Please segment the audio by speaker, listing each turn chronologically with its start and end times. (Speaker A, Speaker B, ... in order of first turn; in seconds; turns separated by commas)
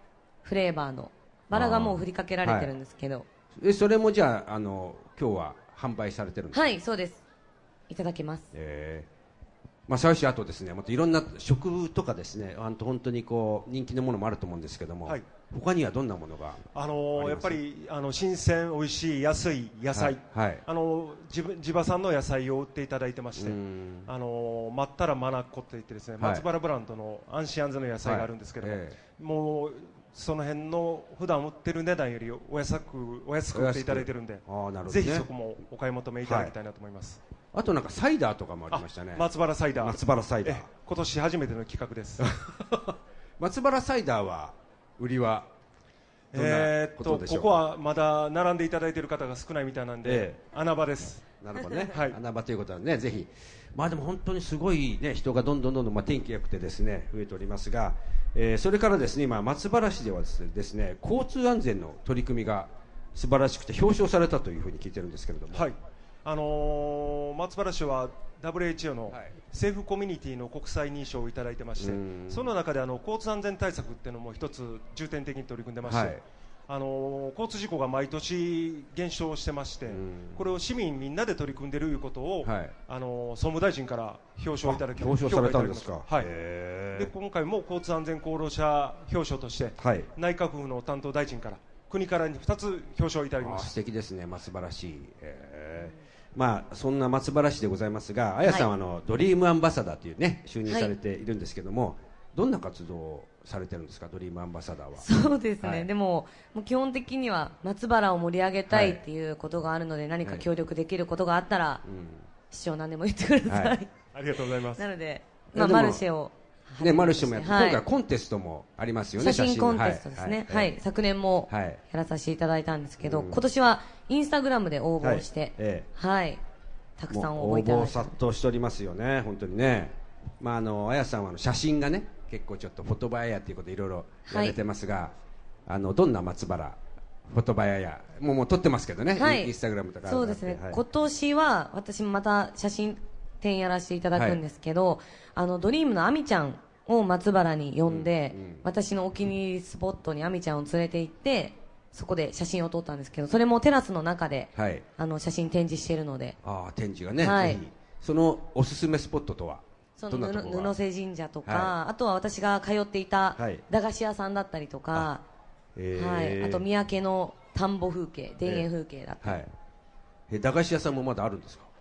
Speaker A: 0.4-3.3, Speaker B: 1.5-2.7, Speaker B: 3.5-6.7, Speaker A: 6.5-7.2, Speaker A: 7.9-8.5, Speaker B: 8.5-9.1, Speaker B: 9.9-17.6, Speaker C: 16.8-37.2, Speaker B: 19.9-20.6, Speaker B: 23.4-24.1, Speaker B: 26.2-26.4, Speaker B: 28.0-29.0, Speaker B: 33.5-35.3, Speaker B: 36.2-36.5, Speaker B: 37.5-40.7, Speaker C: 38.7-42.3, Speaker B: 42.2-45.5, Speaker B: 46.3-47.6, Speaker C: 46.3-51.3, Speaker B: 50.0-50.4, Speaker B: 51.4-65.7, Speaker C: 51.9-52.2, Speaker C: 65.5-86.3, Speaker B: 71.8-72.5, Speaker B: 75.8-76.2, Speaker B: 79.9-80.5, Speaker B: 82.4-82.8, Speaker B: 84.6-87.1, Speaker C: 86.9-93.7, Speaker B: 89.8-90.1, Speaker B: 93.4-105.1, Speaker A: 100.7-100.9, Speaker A: 105.0-111.8, Speaker B: 105.6-105.9, Speaker B: 108.7-109.0, Speaker B: 111.8-112.3, Speaker A: 112.5-113.9, Speaker B: 113.5-113.8, Speaker C: 114.1-114.9, Speaker A: 114.8-117.8, Speaker B: 115.5-116.0, Speaker B: 116.8-120.7, Speaker A: 119.2-126.4, Speaker B: 121.5-121.8, Speaker B: 123.0-123.4, Speaker B: 125.0-125.9, Speaker A: 127.0-128.2, Speaker B: 127.1-135.1, Speaker A: 134.3-134.6, Speaker B: 135.7-140.8, Speaker A: 139.2-139.5, Speaker A: 140.1-156.4, Speaker B: 147.9-148.7, Speaker B: 154.6-154.8, Speaker B: 156.4-160.8, Speaker A: 157.2-157.6, Speaker A: 160.0-165.2, Speaker B: 161.5-161.8, Speaker B: 163.4-163.6, Speaker B: 165.8-166.7, Speaker A: 165.9-169.4, Speaker B: 169.2-169.5, Speaker B: 170.3-171.7